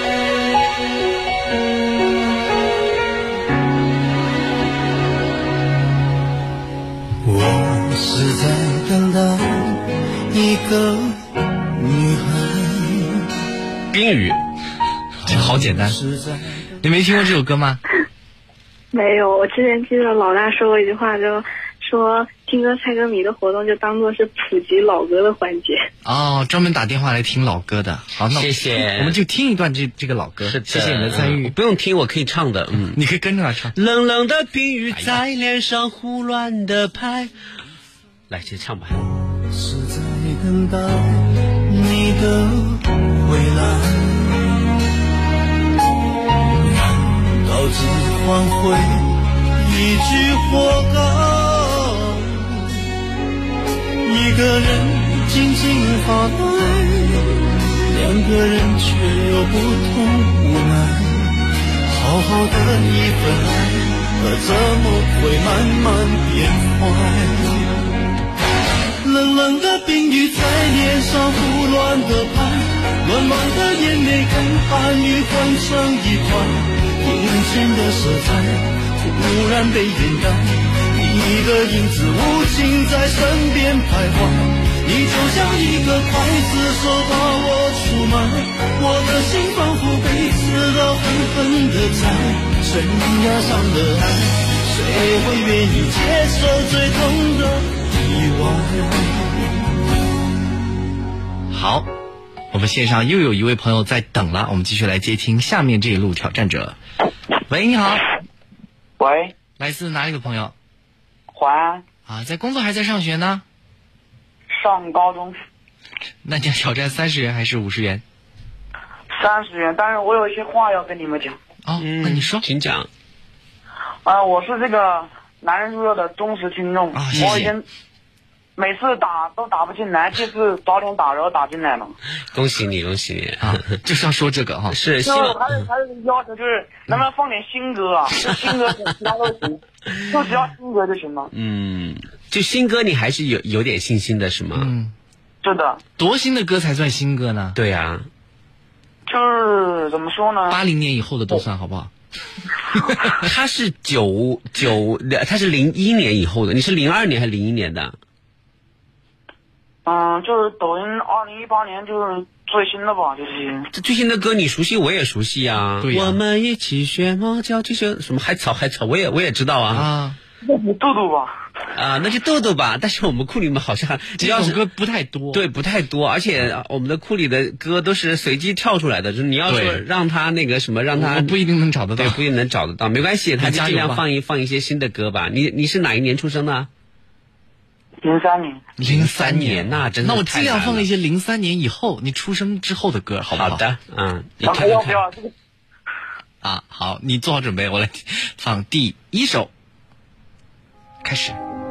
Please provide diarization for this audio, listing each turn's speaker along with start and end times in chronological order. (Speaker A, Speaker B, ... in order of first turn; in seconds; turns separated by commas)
Speaker A: 7.2-11.2, Speaker A: 11.7-13.3, Speaker B: 13.9-14.4, Speaker C: 15.2-16.0, Speaker A: 15.4-16.7, Speaker C: 16.8-17.8, Speaker D: 18.9-25.8, Speaker C: 26.1-31.5, Speaker B: 28.3-29.2, Speaker B: 30.4-33.0, Speaker C: 32.9-33.8, Speaker B: 33.8-37.3, Speaker C: 34.9-35.2, Speaker B: 38.3-39.1, Speaker A: 39.5-44.7, Speaker A: 46.6-52.8, Speaker A: 54.0-67.8, Speaker A: 69.0-99.6, Speaker C: 101.5-101.9, Speaker C: 102.5-106.8, Speaker C: 107.5-108.0, Speaker E: 109.0-109.3, Speaker C: 109.6-110.5, Speaker E: 111.3-111.8, Speaker C: 112.1-113.4, Speaker E: 114.5-115.3, Speaker C: 116.2-118.0, Speaker E: 119.1-121.4, Speaker C: 121.7-122.5, Speaker B: 121.8-122.9, Speaker E: 124.0-127.6, Speaker C: 126.9-127.6, Speaker E: 128.6-131.9, Speaker B: 132.3-133.6, Speaker C: 133.4-134.8, Speaker B: 134.7-135.4, Speaker E: 135.0-141.3, Speaker B: 141.3-144.7, Speaker C: 144.6-144.9, Speaker E: 145.4-145.8, Speaker C: 146.0-147.6, Speaker B: 147.6-148.1, Speaker E: 149.1-150.6, Speaker C: 150.5-151.9, Speaker C: 152.7-153.2, Speaker B: 153.2-158.0, Speaker E: 159.9-163.7, Speaker B: 163.7-169.9, Speaker C: 165.8-166.2, Speaker C: 169.7-170.2, Speaker E: 170.4-171.4, Speaker B: 171.7-174.6, Speaker C: 174.2-175.4, Speaker B: 175.3-181.3, Speaker C: 179.5-179.8, Speaker C: 180.9-182.2, Speaker B: 182.0-186.7, Speaker C: 183.4-184.0, Speaker E: 188.0-188.7, Speaker C: 188.8-193.6, Speaker B: 188.8-190.9, Speaker B: 193.3-195.0, Speaker E: 194.4-195.3, Speaker C: 196.4-199.5, Speaker C: 201.0-201.4